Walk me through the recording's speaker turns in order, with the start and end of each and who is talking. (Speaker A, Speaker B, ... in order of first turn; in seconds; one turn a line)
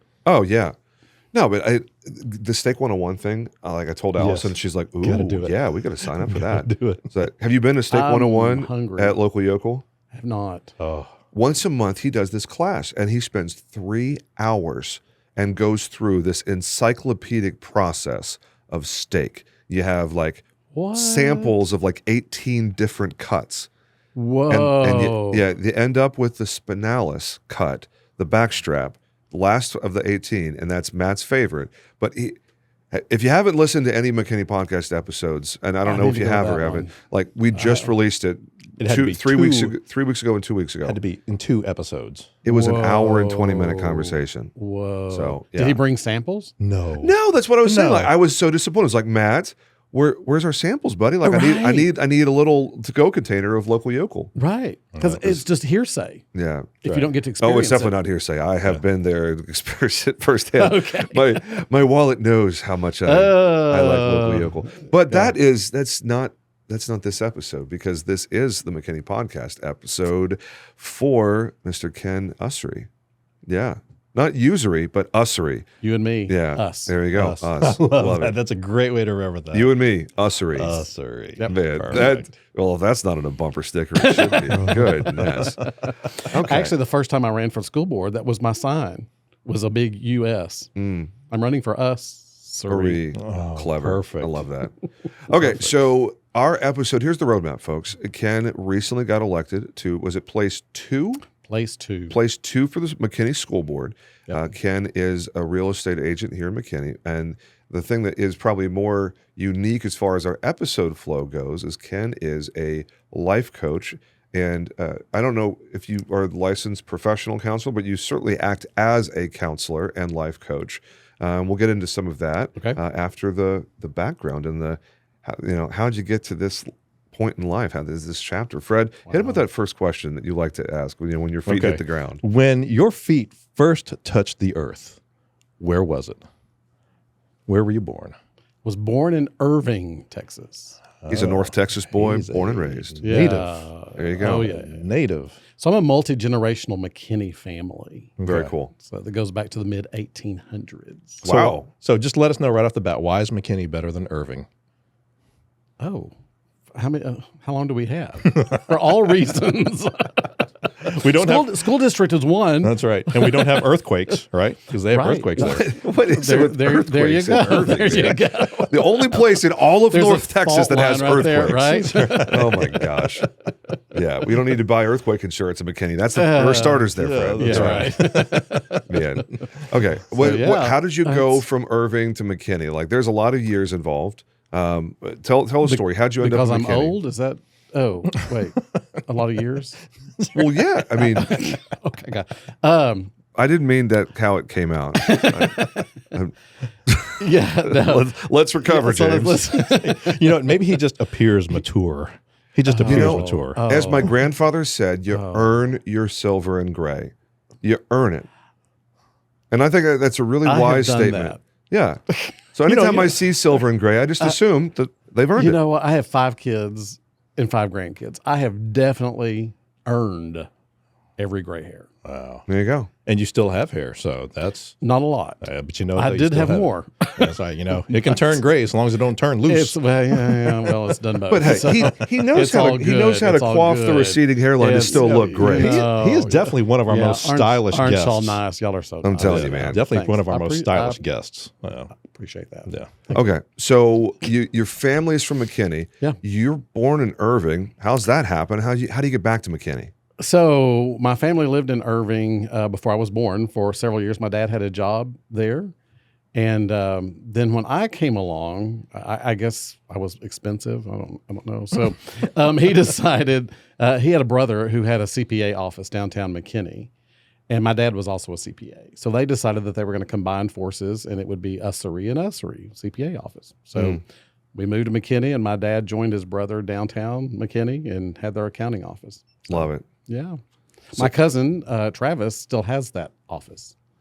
Speaker A: 0.2-0.8
Speaker A: 1.3-9.8
Speaker B: 4.2-7.1
Speaker C: 7.9-9.2
Speaker C: 10.1-10.7
Speaker B: 10.8-11.1
Speaker A: 11.3-23.7
Speaker C: 20.7-21.7
Speaker C: 24.1-25.5
Speaker A: 24.5-32.4
Speaker A: 32.9-41.0
Speaker C: 35.8-36.9
Speaker C: 37.5-37.9
Speaker B: 38.8-39.8
Speaker B: 40.8-42.3
Speaker A: 42.5-44.5
Speaker C: 42.5-46.5
Speaker A: 45.1-45.8
Speaker B: 46.6-48.2
Speaker A: 47.0-54.3
Speaker C: 51.2-51.9
Speaker C: 54.4-56.2
Speaker B: 54.9-55.4
Speaker A: 56.3-56.9
Speaker C: 56.8-58.0
Speaker A: 57.4-72.9
Speaker C: 60.6-61.5
Speaker C: 63.1-65.3
Speaker A: 73.5-75.7
Speaker C: 75.8-77.0
Speaker A: 76.3-78.4
Speaker B: 77.1-79.9
Speaker A: 79.5-80.9
Speaker B: 80.5-82.3
Speaker A: 81.5-85.6
Speaker C: 84.0-93.0
Speaker B: 84.5-85.6
Speaker A: 86.3-86.8
Speaker A: 90.8-91.1
Speaker A: 92.7-94.7
Speaker B: 93.1-94.5
Speaker A: 95.3-101.3
Speaker C: 95.4-95.7
Speaker C: 101.4-102.2
Speaker A: 102.1-132.2
Speaker C: 129.1-129.4
Speaker B: 131.4-135.0
Speaker B: 135.6-136.2
Speaker B: 137.5-138.2
Speaker C: 138.6-140.8
Speaker B: 141.0-145.4
Speaker A: 141.1-143.2
Speaker C: 143.0-144.9
Speaker A: 144.0-144.5
Speaker C: 145.6-148.2
Speaker B: 148.2-148.6
Speaker A: 148.3-148.7
Speaker C: 148.7-151.3
Speaker A: 151.2-151.7
Speaker B: 151.2-154.5
Speaker C: 155.8-156.1
Speaker C: 156.7-160.5
Speaker B: 158.3-158.7
Speaker B: 160.8-161.7
Speaker C: 161.0-163.6
Speaker B: 162.6-165.7
Speaker C: 164.9-172.7
Speaker A: 165.4-173.3
Speaker B: 171.7-173.0
Speaker A: 173.9-177.9
Speaker C: 176.2-178.9
Speaker B: 176.9-179.0
Speaker A: 178.9-187.0
Speaker C: 180.2-181.4
Speaker C: 185.6-189.8
Speaker B: 190.2-190.6
Speaker A: 190.3-191.3
Speaker C: 191.0-193.1
Speaker A: 193.3-196.4
Speaker C: 195.0-195.9
Speaker A: 196.9-199.4
Speaker C: 197.2-198.1
Speaker C: 198.6-200.6
Speaker B: 199.4-203.6
Speaker C: 202.7-204.2
Speaker A: 202.9-208.3
Speaker C: 205.1-205.6
Speaker A: 209.5-212.0
Speaker C: 210.4-211.4
Speaker A: 212.5-215.6
Speaker B: 212.7-213.4
Speaker C: 215.4-220.5
Speaker C: 221.2-221.9
Speaker B: 222.1-222.5
Speaker A: 222.5-222.9
Speaker B: 223.1-224.8
Speaker C: 224.8-227.3
Speaker B: 225.4-230.7
Speaker C: 227.9-228.3
Speaker C: 229.4-241.0
Speaker A: 231.3-235.9
Speaker B: 231.4-231.9
Speaker B: 235.3-238.4
Speaker A: 239.0-239.8
Speaker B: 239.2-241.9
Speaker C: 241.9-242.7
Speaker B: 242.7-243.1
Speaker A: 243.1-249.9
Speaker C: 250.2-255.7
Speaker C: 256.3-266.9
Speaker C: 267.5-274.0
Speaker A: 273.8-274.0
Speaker C: 274.5-280.4
Speaker A: 279.5-279.9
Speaker C: 280.9-283.8